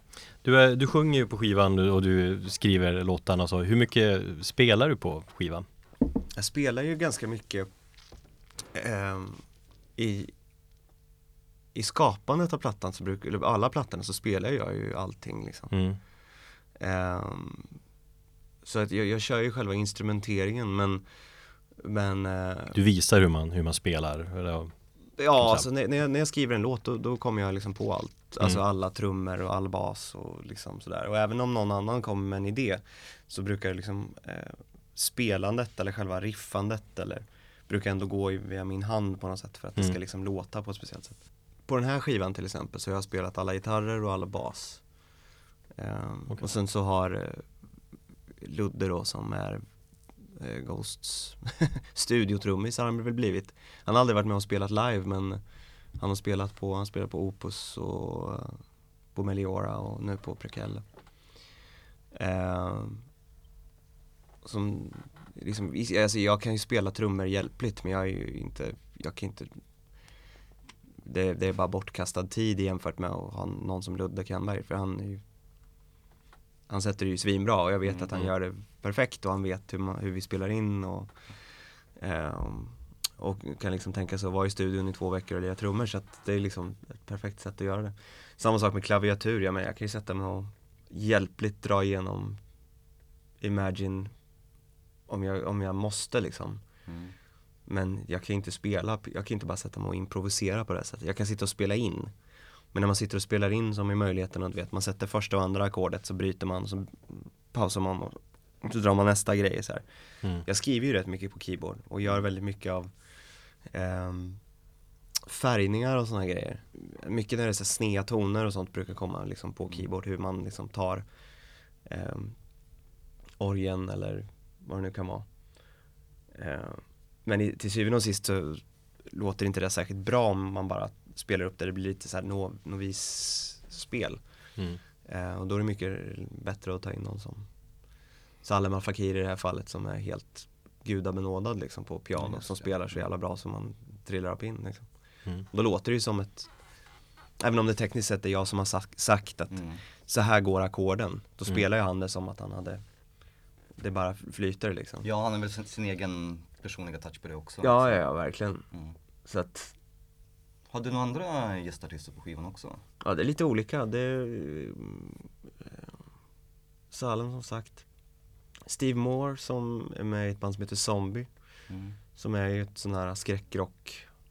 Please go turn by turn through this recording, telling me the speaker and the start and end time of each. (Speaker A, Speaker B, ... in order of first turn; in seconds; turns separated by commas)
Speaker A: 0.4-5.7, Speaker B: 6.3-7.7, Speaker B: 8.7-9.4, Speaker B: 9.9-10.3, Speaker B: 11.7-15.7, Speaker A: 15.7-16.0, Speaker B: 16.8-17.8, Speaker B: 18.6-21.0, Speaker B: 21.8-22.8, Speaker A: 22.7-24.7, Speaker B: 25.2-44.8, Speaker A: 25.4-25.6, Speaker B: 45.8-47.5, Speaker B: 48.4-49.6, Speaker B: 50.3-55.4, Speaker B: 56.0-58.6, Speaker B: 59.1-60.8, Speaker B: 62.1-63.0, Speaker B: 64.4-69.6, Speaker B: 71.0-75.2, Speaker B: 76.7-81.1, Speaker C: 77.8-78.3, Speaker B: 82.0-92.4, Speaker B: 93.4-94.1, Speaker B: 95.1-96.6, Speaker C: 96.9-97.1, Speaker B: 97.7-102.1, Speaker B: 102.7-109.8, Speaker B: 110.4-112.9, Speaker B: 113.7-114.4, Speaker B: 115.2-121.0, Speaker B: 121.8-122.4, Speaker B: 123.4-125.3, Speaker B: 126.3-134.2, Speaker B: 135.0-137.5, Speaker B: 138.4-144.9, Speaker C: 142.2-142.7, Speaker B: 145.5-146.5, Speaker B: 147.4-152.8, Speaker C: 149.5-149.8, Speaker B: 153.8-155.1, Speaker C: 155.0-158.0, Speaker B: 157.6-158.6, Speaker B: 159.2-159.7, Speaker C: 160.7-162.8, Speaker B: 163.0-165.9, Speaker B: 166.9-167.8, Speaker B: 168.6-171.3, Speaker C: 171.7-172.0, Speaker B: 172.1-174.1